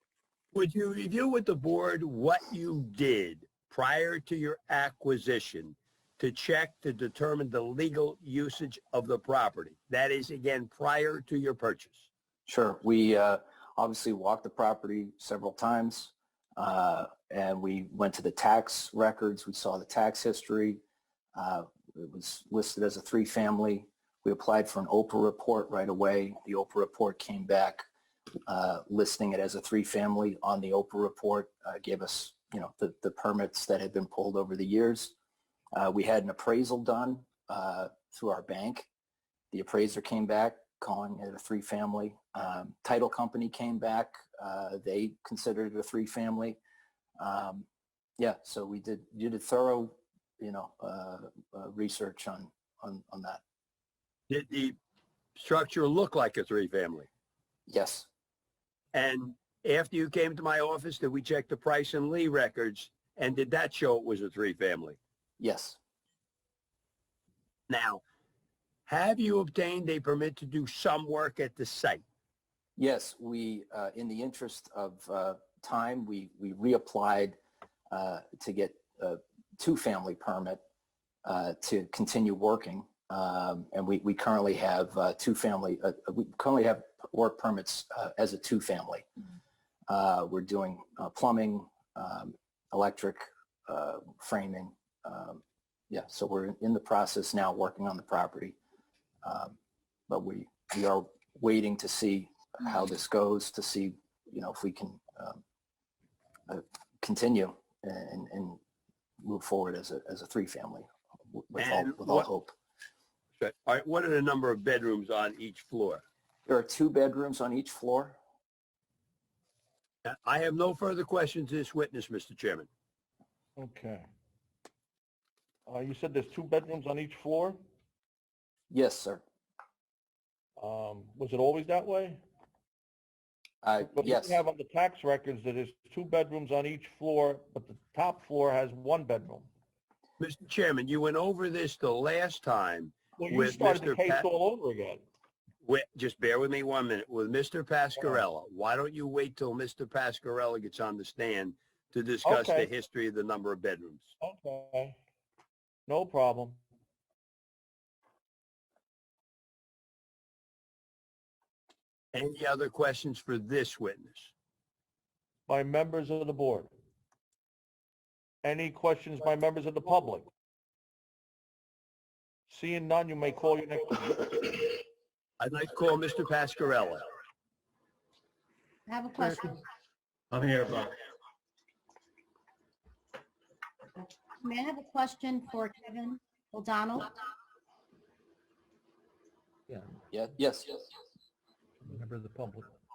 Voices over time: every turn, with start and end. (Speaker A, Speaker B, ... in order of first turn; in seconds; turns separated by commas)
Speaker A: 0.5-12.1, Speaker B: 12.5-20.8, Speaker B: 21.4-27.8, Speaker B: 28.5-35.1, Speaker B: 35.7-38.9, Speaker B: 39.5-46.6, Speaker B: 47.2-47.6, Speaker B: 48.2-53.4, Speaker A: 54.3-54.8, Speaker A: 55.4-57.1, Speaker B: 57.7-58.1, Speaker A: 58.9-65.0, Speaker B: 65.4-65.8, Speaker A: 67.7-68.0, Speaker A: 68.8-72.0, Speaker B: 72.8-77.4, Speaker B: 77.9-80.6, Speaker B: 81.2-89.1, Speaker B: 89.9-98.6, Speaker B: 99.2-99.6, Speaker B: 100.1-105.4, Speaker B: 106.5-108.6, Speaker B: 109.2-112.5, Speaker A: 111.6-112.3, Speaker A: 113.4-116.0, Speaker B: 116.5-118.2, Speaker A: 120.0-122.7, Speaker C: 123.6-124.1, Speaker C: 125.7-127.6, Speaker B: 128.7-129.2, Speaker C: 130.6-132.2, Speaker B: 133.6-134.4, Speaker C: 133.9-139.5, Speaker A: 140.2-144.2, Speaker C: 143.2-145.0, Speaker A: 145.6-154.1, Speaker C: 152.2-152.7, Speaker C: 154.2-155.0, Speaker C: 155.9-156.6, Speaker A: 162.1-164.3, Speaker C: 165.5-166.7, Speaker C: 168.4-170.3, Speaker C: 172.5-174.8, Speaker A: 175.4-177.1, Speaker D: 178.9-179.6, Speaker C: 180.4-180.9, Speaker D: 184.4-187.1, Speaker B: 190.1-190.7, Speaker C: 191.8-192.7